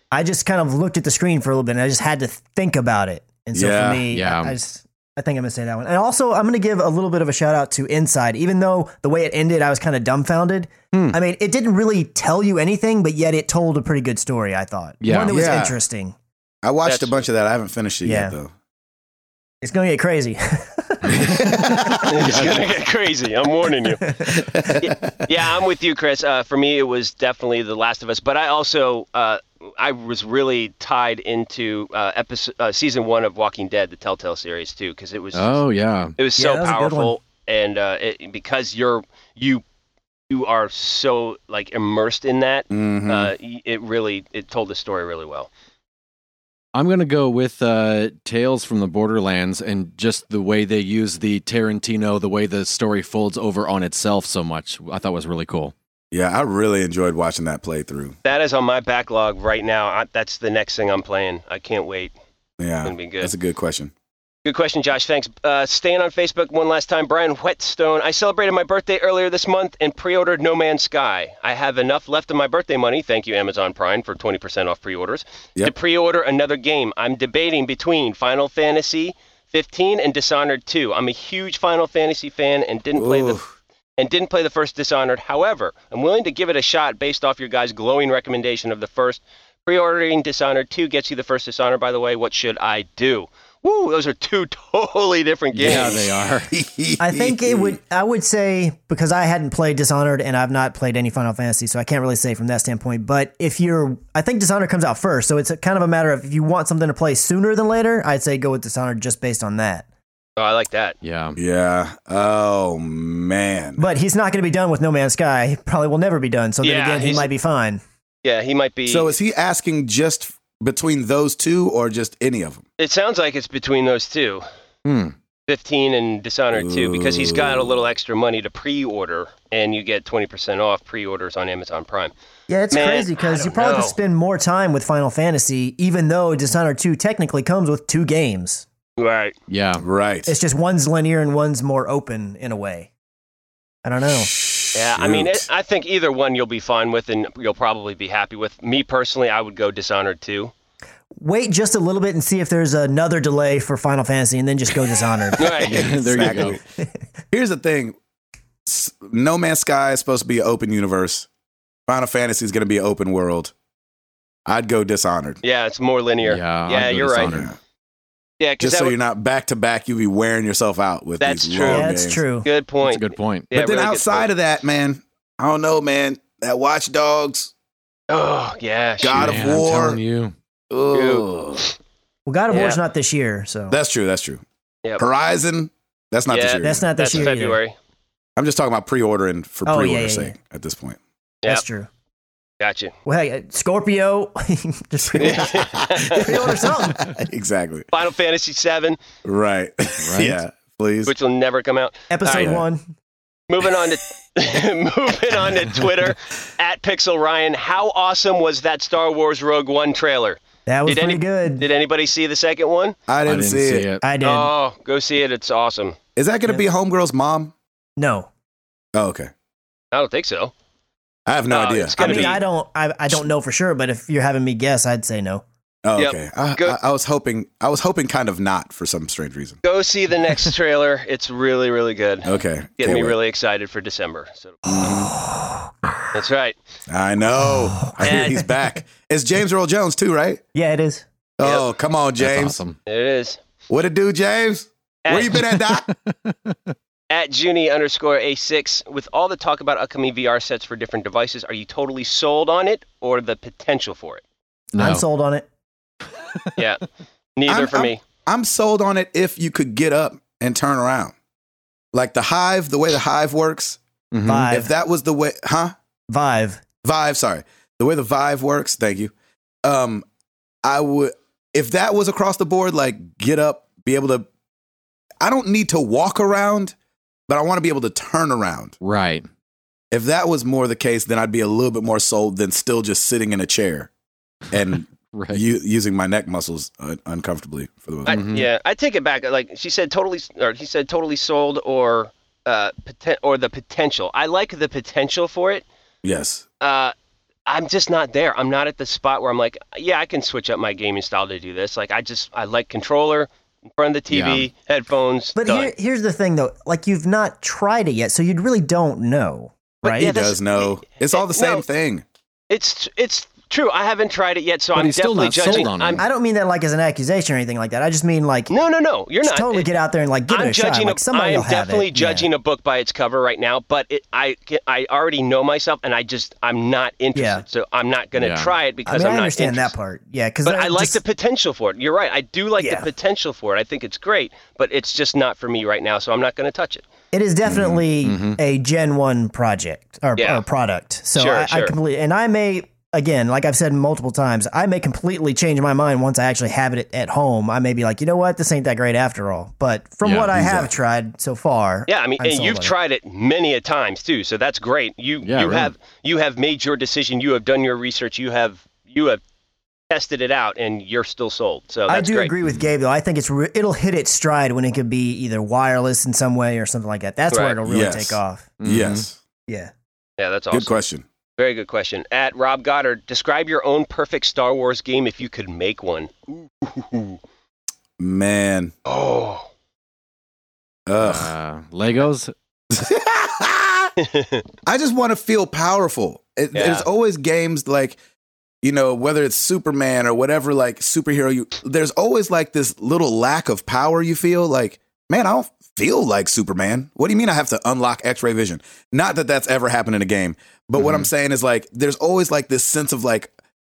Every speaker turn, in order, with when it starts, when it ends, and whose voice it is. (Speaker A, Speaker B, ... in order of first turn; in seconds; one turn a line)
Speaker A: 0.1-16.1
Speaker B: 3.5-4.0
Speaker C: 4.1-4.5
Speaker C: 10.9-11.2
Speaker C: 15.0-15.3
Speaker B: 15.3-15.8
Speaker B: 16.6-18.5
Speaker D: 16.8-17.1
Speaker A: 18.0-18.4
Speaker A: 19.6-21.6
Speaker B: 21.2-22.3
Speaker D: 22.0-24.1
Speaker C: 22.1-22.7
Speaker A: 24.1-24.4
Speaker B: 24.3-25.1
Speaker D: 24.8-35.6
Speaker C: 35.3-36.1
Speaker D: 36.2-39.6
Speaker A: 36.4-37.1
Speaker D: 40.3-45.5
Speaker B: 42.7-43.3
Speaker C: 46.7-55.7
Speaker B: 56.1-58.1
Speaker D: 58.2-62.1
Speaker B: 62.6-63.9
Speaker D: 62.8-63.3
Speaker D: 64.4-83.4
Speaker B: 82.9-83.5
Speaker D: 84.0-96.0
Speaker C: 95.5-96.5
Speaker B: 95.6-97.8
Speaker A: 97.0-109.8
Speaker D: 110.4-111.0
Speaker C: 111.0-111.4
Speaker B: 111.3-113.8
Speaker A: 113.8-117.8
Speaker D: 116.6-117.3
Speaker D: 118.2-119.1
Speaker B: 118.9-122.6
Speaker D: 122.8-124.4
Speaker C: 124.8-125.1
Speaker D: 125.5-132.1
Speaker B: 126.5-127.8
Speaker A: 132.5-138.7
Speaker D: 132.7-133.9
Speaker D: 139.0-139.3
Speaker C: 139.5-139.8
Speaker B: 139.8-140.3
Speaker A: 140.3-142.9
Speaker A: 143.8-144.3
Speaker B: 144.2-145.4
Speaker D: 144.7-150.5
Speaker A: 151.2-155.5
Speaker D: 155.4-156.5
Speaker C: 155.6-156.6
Speaker B: 155.6-156.6
Speaker B: 157.3-157.9
Speaker B: 158.7-161.3
Speaker B: 161.9-163.5
Speaker B: 164.5-165.4
Speaker D: 165.4-167.4
Speaker C: 166.2-167.5
Speaker B: 167.2-167.6
Speaker D: 168.4-168.9
Speaker B: 168.6-172.2
Speaker D: 171.2-174.3
Speaker A: 171.6-172.5
Speaker C: 172.8-173.5
Speaker B: 173.5-177.5
Speaker D: 178.1-179.5
Speaker B: 179.0-180.0
Speaker C: 179.1-180.3
Speaker B: 180.7-181.7
Speaker D: 180.9-181.3
Speaker A: 182.2-183.8
Speaker D: 182.5-182.8
Speaker B: 183.7-184.4
Speaker B: 185.0-187.2
Speaker D: 186.3-187.7
Speaker A: 186.6-187.6
Speaker B: 188.3-191.0
Speaker A: 189.7-190.3
Speaker A: 191.4-191.9
Speaker D: 192.6-192.9
Speaker A: 193.0-197.0
Speaker B: 195.1-197.9
Speaker D: 195.2-196.6
Speaker D: 197.9-199.0
Speaker B: 199.2-201.1
Speaker C: 200.0-200.4
Speaker D: 201.1-202.6
Speaker A: 202.1-202.8
Speaker B: 202.3-202.6
Speaker D: 203.5-212.9
Speaker A: 210.7-211.7
Speaker B: 213.1-213.9
Speaker C: 213.2-214.0
Speaker A: 214.0-214.5
Speaker D: 214.2-216.0
Speaker B: 216.2-217.5
Speaker A: 218.0-218.3
Speaker B: 218.9-219.3
Speaker D: 219.9-220.5
Speaker B: 221.3-222.4
Speaker D: 221.5-222.4
Speaker A: 222.0-225.4
Speaker B: 225.8-229.6
Speaker D: 225.9-226.8
Speaker D: 229.6-234.9
Speaker B: 232.2-233.2
Speaker B: 234.6-235.1
Speaker D: 236.1-236.6
Speaker B: 236.9-240.4
Speaker A: 237.7-238.5
Speaker D: 238.0-238.4
Speaker A: 240.5-241.0
Speaker B: 241.4-242.6
Speaker D: 241.4-241.7
Speaker C: 242.2-242.8
Speaker D: 242.8-243.4
Speaker B: 243.7-245.9
Speaker D: 245.0-245.4
Speaker C: 245.5-246.5
Speaker D: 247.1-254.2
Speaker C: 254.7-255.0
Speaker A: 254.8-255.4
Speaker D: 256.6-256.8
Speaker D: 257.4-258.0
Speaker B: 257.5-261.1
Speaker B: 261.9-263.8
Speaker C: 264.1-264.5
Speaker A: 264.3-264.7
Speaker B: 264.5-265.7
Speaker A: 266.1-266.6
Speaker B: 266.8-269.1
Speaker B: 269.6-270.0
Speaker B: 270.6-274.3
Speaker B: 275.2-276.7
Speaker B: 277.3-278.8
Speaker C: 278.8-279.2
Speaker B: 279.9-283.9
Speaker B: 284.5-288.2
Speaker C: 285.1-285.4
Speaker D: 288.1-295.6
Speaker C: 288.1-288.5
Speaker B: 296.0-296.4
Speaker D: 296.6-296.9
Speaker D: 297.5-305.7
Speaker C: 304.1-304.5
Speaker A: 305.4-310.1
Speaker D: 309.8-311.6
Speaker B: 310.0-312.0
Speaker D: 312.5-316.0
Speaker C: 314.7-316.0
Speaker A: 316.0-318.5
Speaker D: 318.5-319.7
Speaker A: 319.2-322.3
Speaker D: 320.3-329.7
Speaker A: 327.1-327.4
Speaker C: 328.1-328.5
Speaker A: 328.9-331.0
Speaker D: 330.4-336.8
Speaker A: 332.6-332.9
Speaker A: 337.1-352.7
Speaker B: 337.5-337.8
Speaker C: 338.0-338.4
Speaker D: 340.2-340.4
Speaker D: 341.1-341.7
Speaker C: 350.0-350.4
Speaker B: 350.3-350.7
Speaker D: 351.9-359.2
Speaker C: 355.2-355.7
Speaker D: 359.9-362.3
Speaker A: 361.9-368.5
Speaker D: 367.3-367.6
Speaker B: 367.6-369.2
Speaker C: 368.6-369.0
Speaker D: 370.2-370.7
Speaker B: 370.5-371.0
Speaker D: 371.4-377.2
Speaker B: 378.0-378.7
Speaker D: 378.9-379.5
Speaker B: 380.9-381.3
Speaker C: 381.0-382.3
Speaker B: 382.7-383.9
Speaker D: 384.0-384.4
Speaker B: 384.6-388.0
Speaker D: 386.5-386.9
Speaker B: 388.6-403.3
Speaker C: 400.8-401.1